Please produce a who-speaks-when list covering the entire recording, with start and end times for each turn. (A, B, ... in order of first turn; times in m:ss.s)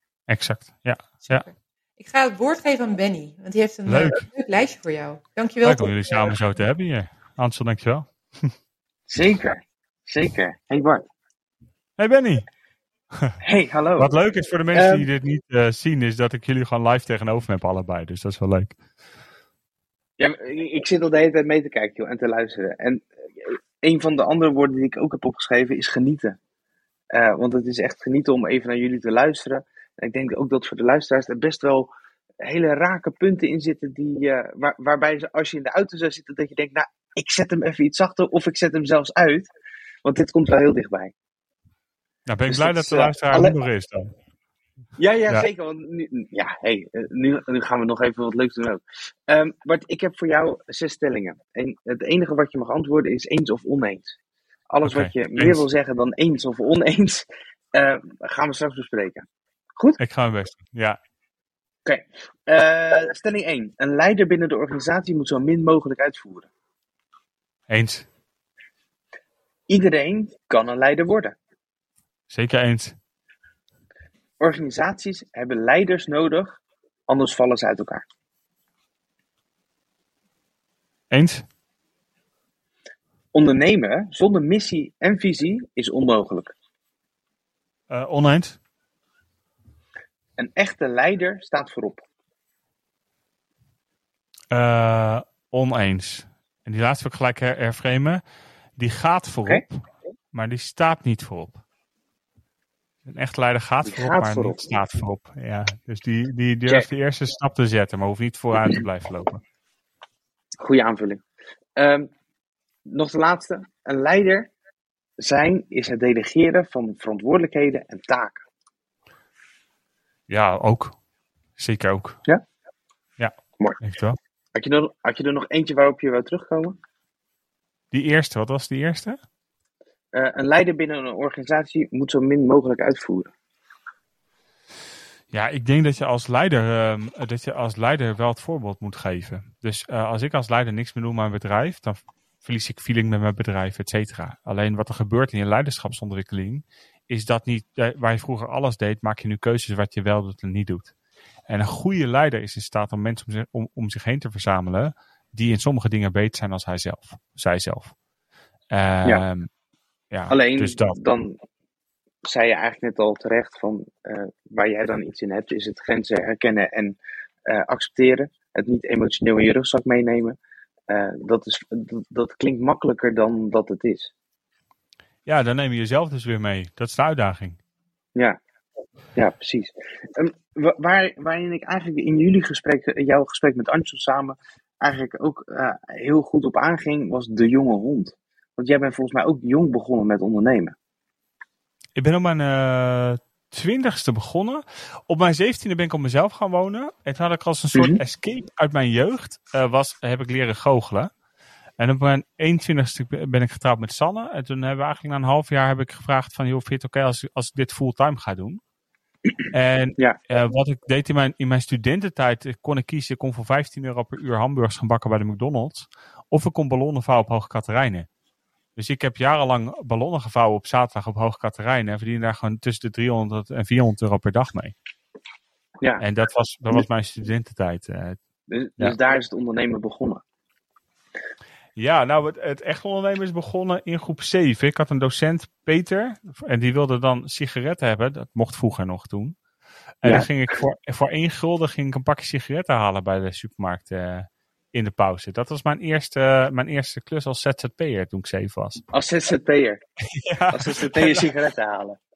0:00.3-0:01.4 A
0:01.2-0:05.9 B
0:03.9-0:04.2 A
0:05.6-0:08.5 A
0:09.1-0:11.0 C
0:12.0-0:12.4 A
0:13.4-0:14.1 C
0:14.0-0:18.8 A
0:14.7-0:15.0 C
0:20.2-0:26.4 C
0:27.1-0:31.9 C
0:32.4-0:39.5 C
0:40.0-0:41.1 C
0:42.3-0:44.1 A
0:42.5-0:43.6 C
0:45.0-0:54.1 C
0:54.7-0:59.2 C
0:54.8-0:55.6 A
1:00.0-1:01.0 A
1:01.8-1:06.5 C
1:07.7-1:08.0 A
1:09.7-1:11.4 C
1:12.3-1:13.0 A
1:14.4-1:18.0 C
1:21.1-1:21.4 A
1:23.3-1:26.5 C
1:27.9-1:28.6 A
1:30.4-1:32.0 C
1:34.5-1:38.2 A
1:38.8-1:41.6 A
1:43.0-1:49.4 A
1:43.8-1:44.6 C
1:50.6-1:51.2 C
1:51.8-1:52.1 C
1:52.9-1:54.5 C
1:55.2-1:58.4 C
2:00.3-2:01.0 A
2:01.6-2:02.2 A
2:03.2-2:04.2 A
2:04.5-2:06.8 C
2:07.9-2:09.2 A
2:10.1-2:13.3 C
2:15.3-2:30.9 A
2:31.5-2:37.9 A
2:38.7-2:39.5 A
2:40.1-2:41.0 A
2:40.3-2:41.4 C
2:42.2-2:50.4 C
2:50.9-2:54.1 C
2:55.2-2:57.6 A
2:59.2-3:10.8 C
3:11.9-3:21.1 A
3:17.7-3:18.0 C
3:21.8-3:28.6 A
3:29.5-3:38.1 A
3:38.8-3:44.7 A
3:46.0-3:48.2 A
3:48.5-3:50.2 C
3:51.8-3:59.4 A
4:00.0-4:08.8 A
4:08.9-4:09.8 C
4:10.1-4:11.3 A
4:10.5-4:12.0 C